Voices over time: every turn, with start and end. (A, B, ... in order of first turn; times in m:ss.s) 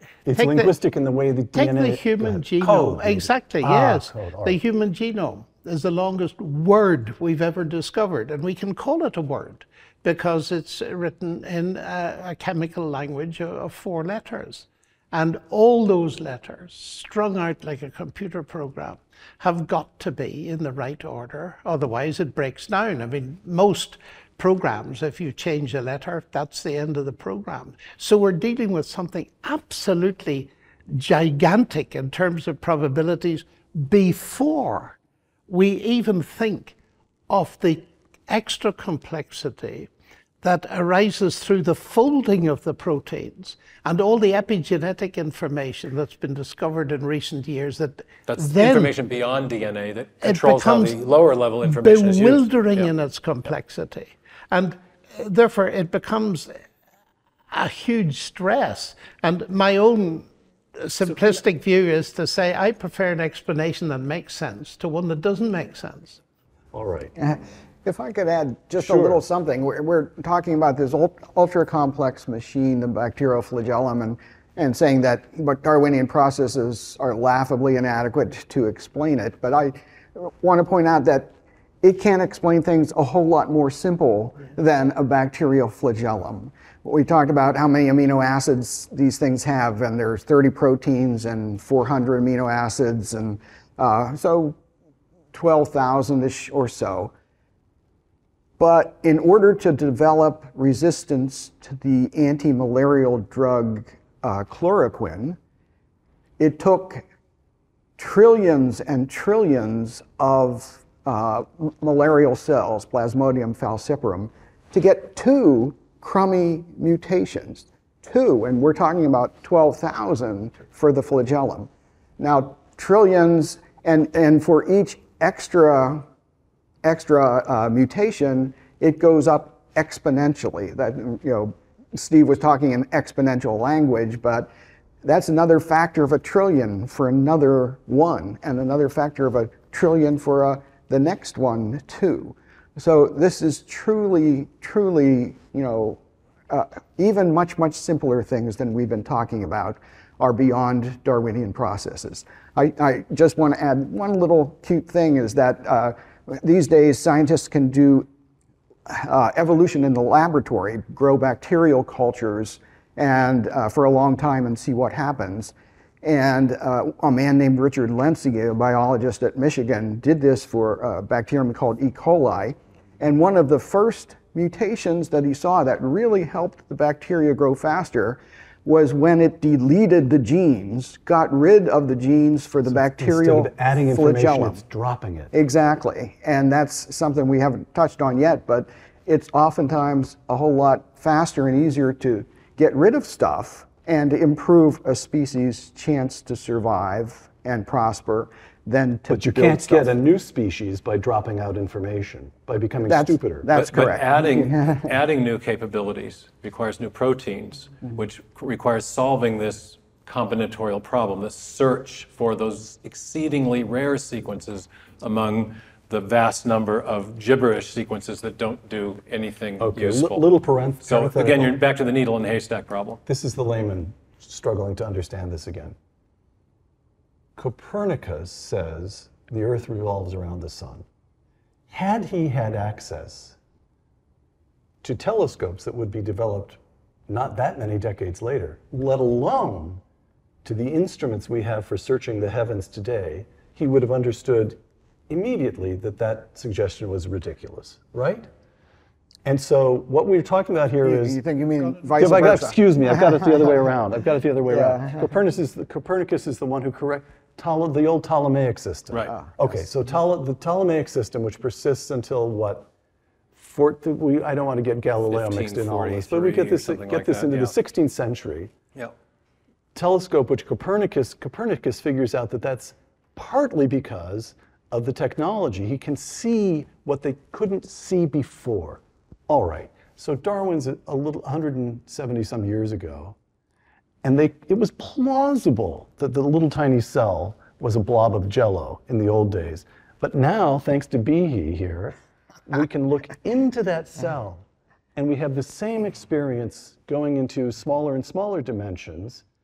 0:00.3-0:04.6 A
0:00.4-0:00.7 B
0:01.6-0:35.0 B
0:35.5-0:36.8 B
0:37.3-0:39.9 B
0:40.4-0:48.9 B
0:48.3-0:52.9 C
0:50.2-0:51.0 B
0:51.6-0:56.6 B
0:57.5-1:06.2 B
1:06.7-1:07.1 A
1:07.2-1:34.6 D
1:08.8-1:09.2 A
1:35.3-1:37.1 D
1:38.6-1:45.4 D
1:46.4-1:47.0 D
1:48.0-2:06.1 D
2:06.8-2:14.5 D
2:15.0-2:38.1 D
2:38.9-3:04.6 D
3:02.7-3:05.3 A
3:05.3-3:19.9 D
3:19.1-3:23.5 A
3:22.9-3:24.9 D
3:23.5-3:40.2 C
3:39.6-3:41.6 A
3:40.8-3:43.0 C
3:43.1-3:45.8 A
3:47.4-3:50.9 A
3:51.7-3:53.4 A
3:54.8-3:59.8 A
4:00.4-4:04.6 A
4:05.1-4:08.3 A
4:09.2-4:11.2 A
4:10.8-4:13.5 D
4:12.0-4:22.7 A
4:14.5-4:15.1 D
4:19.1-4:19.7 D
4:23.4-4:28.5 A
4:25.1-4:27.6 C
4:29.8-4:43.2 A
4:44.0-4:59.2 A